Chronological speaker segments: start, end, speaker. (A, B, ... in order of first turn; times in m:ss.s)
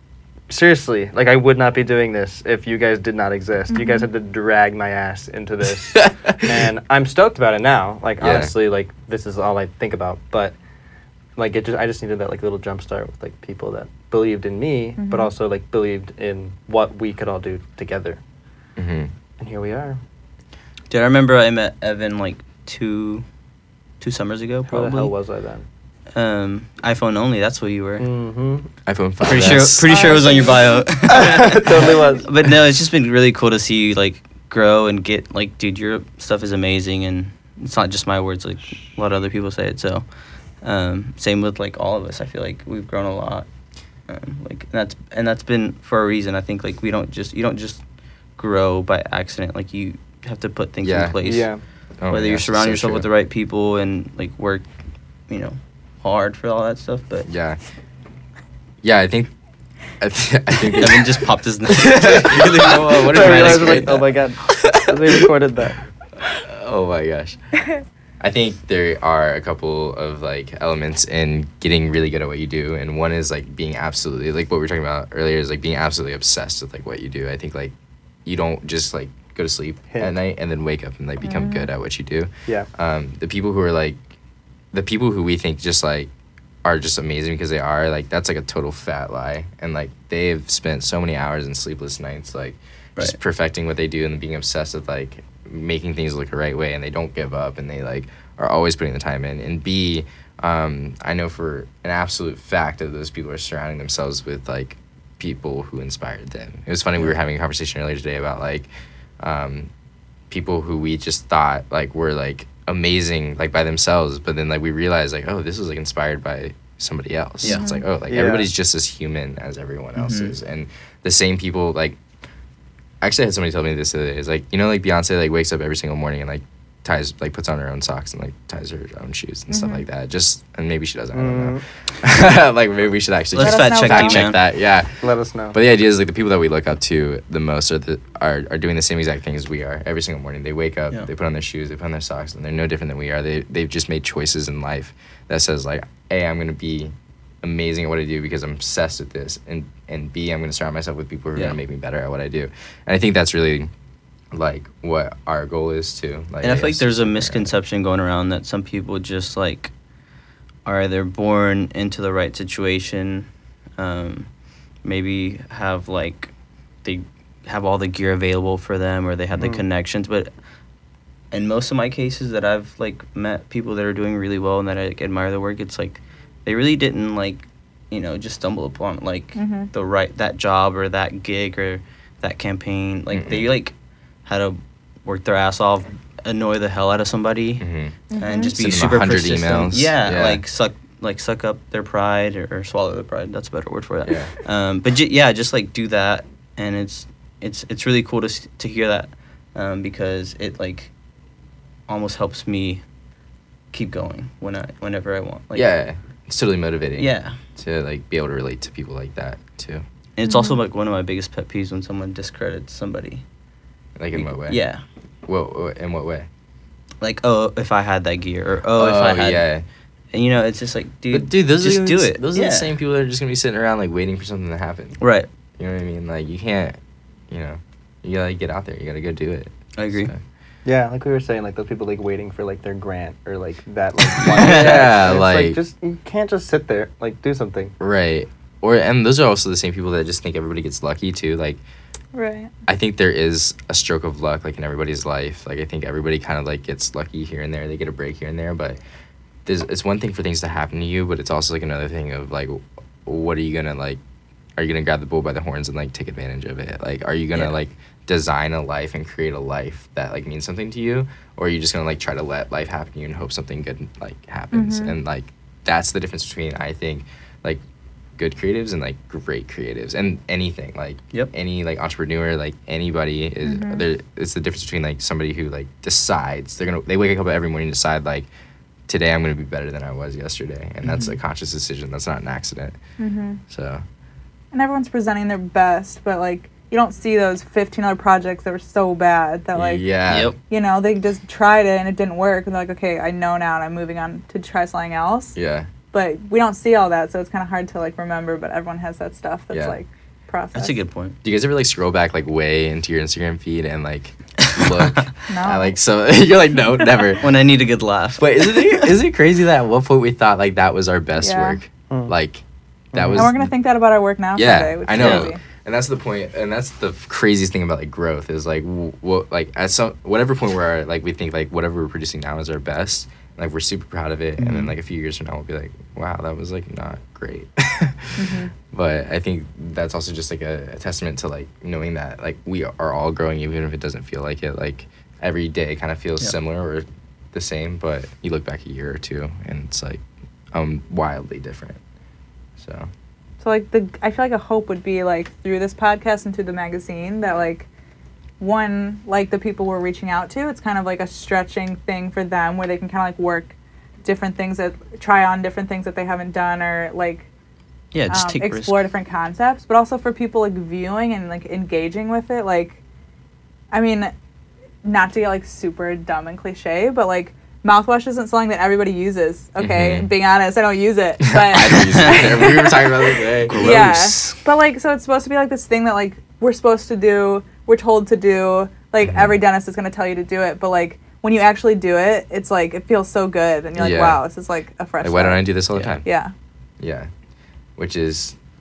0:00.5-0:10.6 A
0:03.7-0:04.0 B
0:08.2-0:08.5 C
0:11.4-0:18.2 A
0:15.0-0:15.3 B
0:18.8-0:19.1 C
0:19.4-0:20.0 A
0:20.9-0:23.2 D
0:24.0-0:25.1 D
0:24.7-0:25.6 A
0:26.1-0:28.1 D
0:28.0-0:28.7 A
0:28.8-0:30.5 C
0:29.2-0:43.5 D
0:29.8-0:30.8 B
0:31.1-0:32.3 A
0:44.0-0:47.8 D
0:48.4-0:54.7 D
0:50.8-0:51.2 C
0:51.2-0:51.6 A
0:52.0-0:53.1 C
0:55.3-0:57.3 D
0:57.3-0:57.6 C
0:58.8-0:59.3 C
1:00.0-1:05.2 C
1:00.8-1:04.0 D
1:03.1-1:05.8 A
1:06.3-1:07.4 C
1:08.2-1:17.7 C
1:18.2-1:24.0 C
1:21.2-1:21.7 B
1:24.7-1:26.1 C
1:26.6-1:48.7 C
1:49.2-1:49.7 C
1:50.3-2:02.0 C
1:57.4-1:57.7 D
1:57.4-1:57.8 B
1:58.1-1:58.5 A
2:00.0-2:00.3 D
2:03.0-2:33.7 C
2:09.5-2:09.8 B
2:11.1-2:11.6 A
2:13.3-2:14.4 D
2:13.4-2:14.3 B
2:15.0-2:15.6 A
2:31.3-2:31.6 D
2:34.3-2:37.5 C
2:36.4-2:39.7 D
2:40.6-2:44.3 D
2:44.8-2:46.3 D
2:46.8-2:50.3 D
2:49.4-2:49.6 A
2:51.3-3:03.7 D
2:59.4-2:59.7 B
3:03.1-3:03.5 C
3:04.2-3:20.9 D
3:07.6-3:07.9 C
3:08.1-3:08.5 B
3:08.6-3:10.4 C
3:14.0-3:14.3 C
3:21.9-3:22.8 D
3:23.7-3:25.7 D
3:25.5-3:29.8 C
3:27.0-3:27.4 D
3:30.2-3:33.2 D
3:30.2-3:30.6 B
3:34.0-3:34.6 C
3:34.1-3:34.8 D
3:35.2-3:36.3 C
3:37.0-3:39.4 D
3:38.8-3:39.6 C
3:40.1-3:42.7 D
3:41.1-3:45.0 C
3:45.0-3:45.3 D
3:45.6-3:46.8 C
3:47.3-3:50.2 C
3:49.8-3:50.1 D
3:50.6-3:57.7 A
3:54.2-3:55.0 D
3:54.2-3:55.6 C
3:57.8-4:01.6 C
4:02.1-4:02.5 B
4:02.7-4:08.8 C
4:09.4-4:14.0 C
4:14.6-4:27.6 C
4:24.5-4:24.9 B
4:28.2-4:38.3 C
4:33.4-4:33.8 B
4:38.9-4:42.8 C
4:40.8-4:41.2 D
4:43.0-4:43.4 B
4:43.5-4:43.8 C
4:44.5-4:49.9 B
4:49.5-4:50.3 C
4:50.0-4:50.4 D
4:50.5-4:55.4 B
4:55.3-4:55.7 C
4:55.9-5:00.8 B
4:59.5-4:59.8 C
5:00.5-5:01.2 D
5:01.2-5:07.3 C
5:05.3-5:05.7 B
5:07.2-5:09.0 D
5:08.2-5:12.4 C
5:11.2-5:11.6 B
5:12.9-5:13.3 A
5:12.9-5:13.4 C
5:13.2-5:15.4 B
5:14.3-5:40.0 C
5:14.9-5:15.3 D
5:24.4-5:24.7 A
5:28.2-5:28.5 B
5:40.5-5:41.8 C
5:42.6-5:42.9 C
5:43.4-5:47.7 B
5:48.4-5:57.3 B
5:57.9-5:58.8 D
5:58.1-6:02.8 B
6:03.7-6:04.1 B
6:04.8-6:12.9 B
6:09.6-6:10.1 C
6:11.3-6:13.8 C
6:11.9-6:12.4 D
6:13.4-6:14.4 D
6:13.5-6:25.5 B
6:19.0-6:19.3 C
6:23.8-6:24.2 C
6:25.0-6:26.1 C
6:25.7-6:26.0 D
6:26.0-6:26.3 B
6:26.8-6:27.1 C
6:27.8-6:28.3 C